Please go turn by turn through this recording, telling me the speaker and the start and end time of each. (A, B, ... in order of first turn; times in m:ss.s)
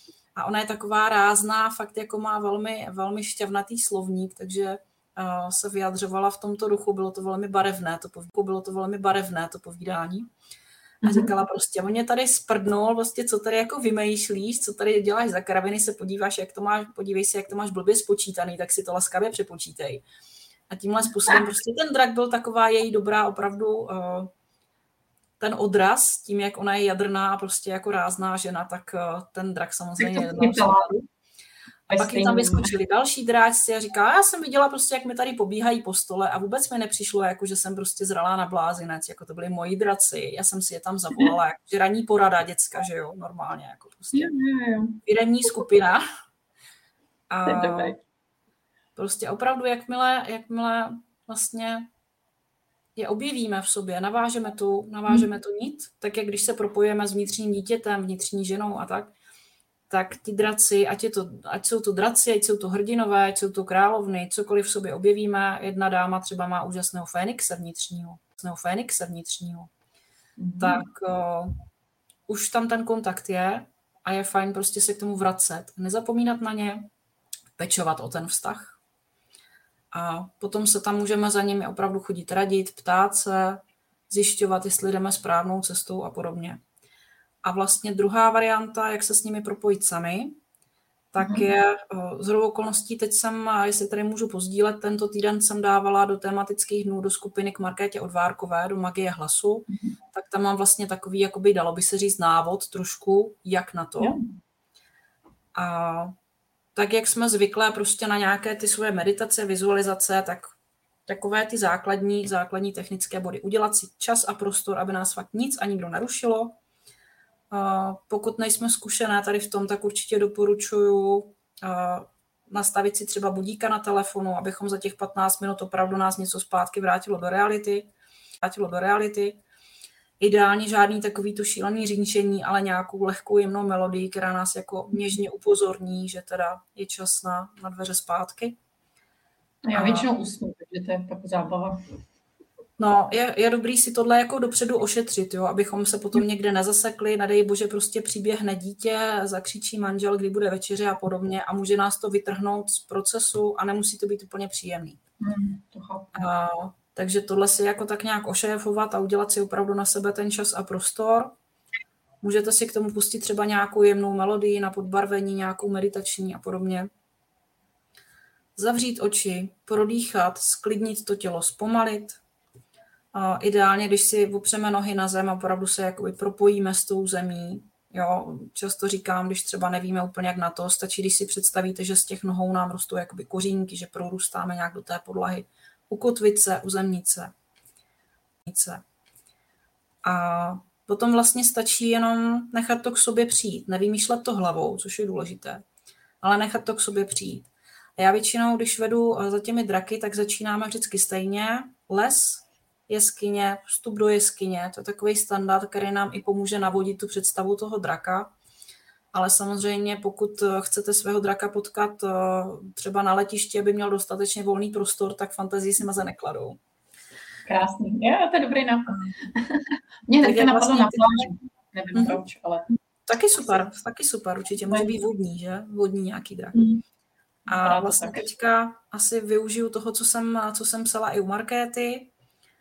0:00.4-0:10.3 A
0:11.0-0:11.3 B
0:11.0-0:20.0 A
0:20.7-0:24.3 A
0:25.4-0:30.9 A
0:30.0-0:31.1 B
0:31.9-0:32.7 B
0:31.9-0:44.3 A
0:44.1-0:45.0 B
0:45.0-0:46.0 A
0:47.3-0:48.0 A
0:47.5-0:48.0 B
0:49.0-0:51.9 A
0:53.0-0:59.1 A
0:59.9-1:09.7 A
1:10.4-1:10.8 B
1:10.6-1:11.6 A
1:12.3-1:16.8 A
1:17.6-1:18.8 A
1:19.9-1:26.6 A
1:27.4-1:30.4 A
1:31.1-1:44.2 A
1:31.2-1:31.5 B
1:39.7-1:40.0 B
1:44.0-1:44.4 B
1:45.6-1:46.1 A
1:46.8-1:50.6 A
1:51.1-1:56.6 A
1:57.5-2:07.9 A
2:08.4-2:09.4 A
2:10.2-2:18.6 A
2:19.6-2:21.8 B
2:19.8-2:20.1 A
2:22.8-2:35.0 A
2:35.2-2:36.2 B
2:36.2-2:41.3 A
2:42.2-2:46.9 A
2:48.6-2:52.2 A
2:53.1-3:07.3 A
3:08.4-3:08.8 A
3:10.0-3:15.6 A
3:16.2-3:28.3 A
3:29.1-3:36.6 A
3:37.5-3:42.7 B
3:40.2-3:41.3 A
3:41.9-3:42.2 A
3:43.1-3:46.6 A
3:46.5-3:46.8 B
3:47.5-3:48.3 B
3:47.5-3:52.1 A